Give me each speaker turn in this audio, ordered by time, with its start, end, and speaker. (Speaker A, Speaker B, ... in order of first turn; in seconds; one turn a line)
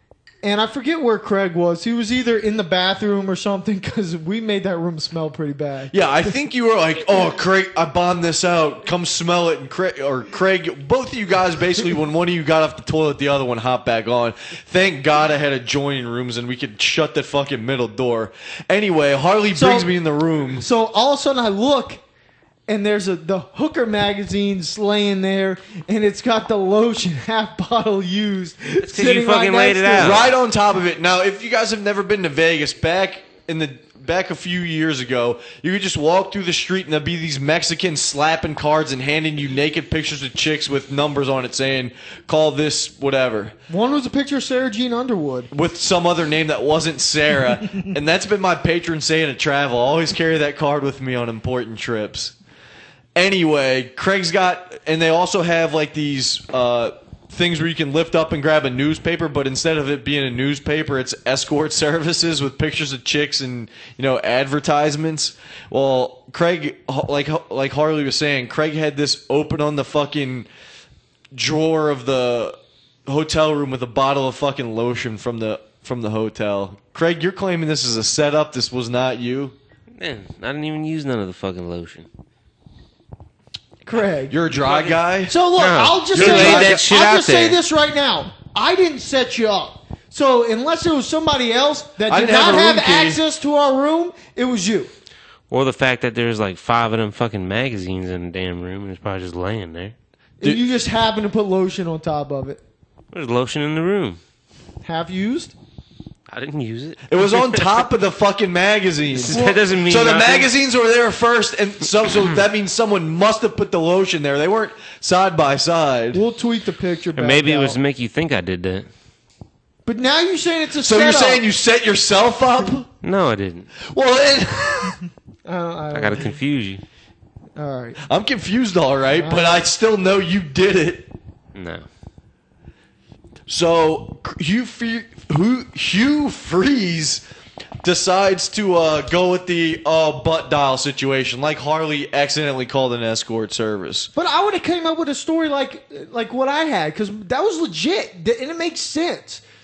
Speaker A: 0.4-5.9
Speaker B: 5.9-20.6
Speaker A: 19.5-19.9
Speaker A: 20.6-22.0
Speaker A: 22.7-30.2
Speaker C: 28.8-30.3
Speaker B: 29.9-43.5
Speaker A: 43.7-45.5
Speaker B: 45.5-52.3
Speaker B: 53.1-70.5
Speaker B: 71.3-79.5
Speaker C: 80.0-82.1
Speaker A: 83.8-84.3
Speaker B: 84.3-85.3
Speaker C: 84.5-85.0
Speaker A: 85.3-94.9
Speaker C: 85.5-87.6
Speaker B: 86.1-86.8
Speaker B: 92.1-93.2
Speaker C: 95.5-99.9
Speaker A: 100.4-102.6
Speaker C: 103.1-104.2
Speaker A: 104.8-105.5
Speaker C: 106.3-107.9
Speaker B: 107.1-116.2
Speaker C: 109.1-110.5
Speaker A: 109.3-109.6
Speaker A: 116.1-117.8
Speaker C: 117.2-118.9
Speaker A: 119.8-121.4
Speaker B: 120.8-122.9
Speaker C: 123.0-123.7
Speaker B: 123.8-125.0
Speaker A: 125.5-126.4
Speaker C: 125.9-126.8
Speaker A: 127.5-128.0
Speaker B: 128.0-131.1
Speaker A: 129.1-129.7
Speaker C: 131.5-131.8
Speaker B: 133.5-137.2
Speaker B: 137.8-144.1
Speaker A: 144.1-149.4